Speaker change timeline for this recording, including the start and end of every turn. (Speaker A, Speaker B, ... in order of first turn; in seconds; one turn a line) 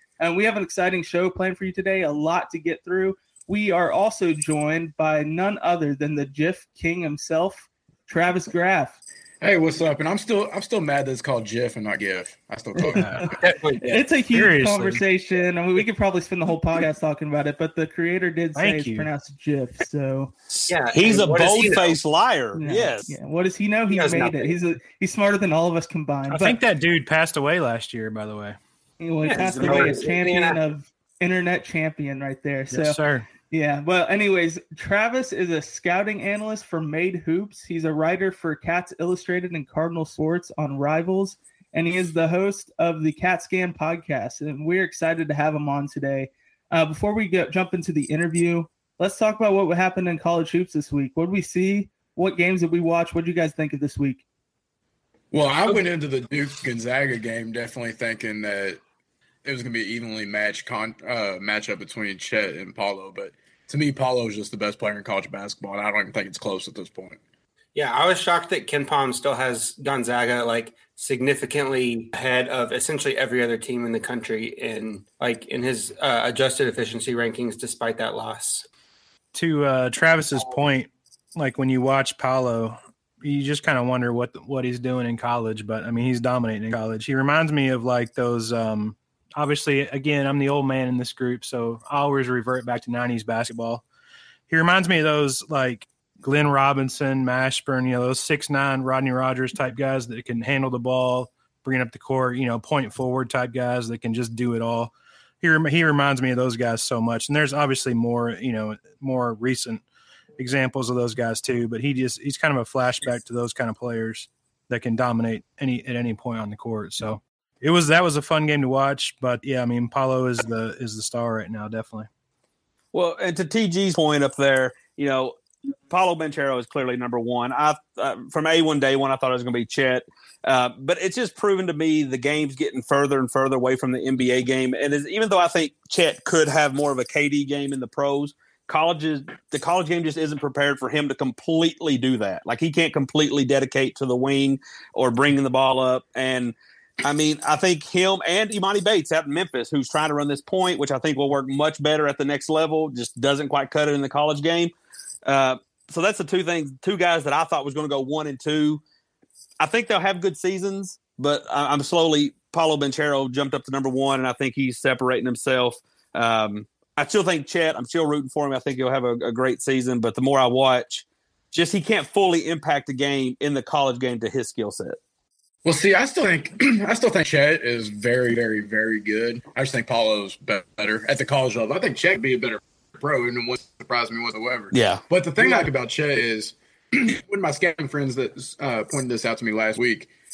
Speaker A: 0.2-9.0
Speaker B: 9.4-13.4
Speaker A: 12.8-20.3
Speaker C: 12.9-13.3
Speaker D: 13.3-14.1
Speaker C: 14.3-15.0
Speaker C: 18.6-19.1
Speaker D: 20.7-22.0
Speaker E: 20.9-23.1
Speaker A: 22.6-26.6
Speaker D: 23.9-24.5
Speaker C: 26.3-28.6
Speaker A: 29.0-33.0
Speaker D: 29.2-30.6
Speaker E: 29.7-29.9
Speaker C: 32.7-33.3
Speaker A: 33.5-54.2
Speaker B: 55.3-58.8
Speaker B: 59.4-67.2
Speaker D: 67.7-78.7
Speaker C: 79.3-93.8
Speaker C: 94.5-109.8
Speaker C: 110.4-122.1
Speaker E: 122.9-125.4
Speaker E: 125.9-154.7
Speaker E: 155.2-158.8
Speaker E: 159.6-175.0
Speaker B: 175.6-190.1
Speaker E: 184.7-185.0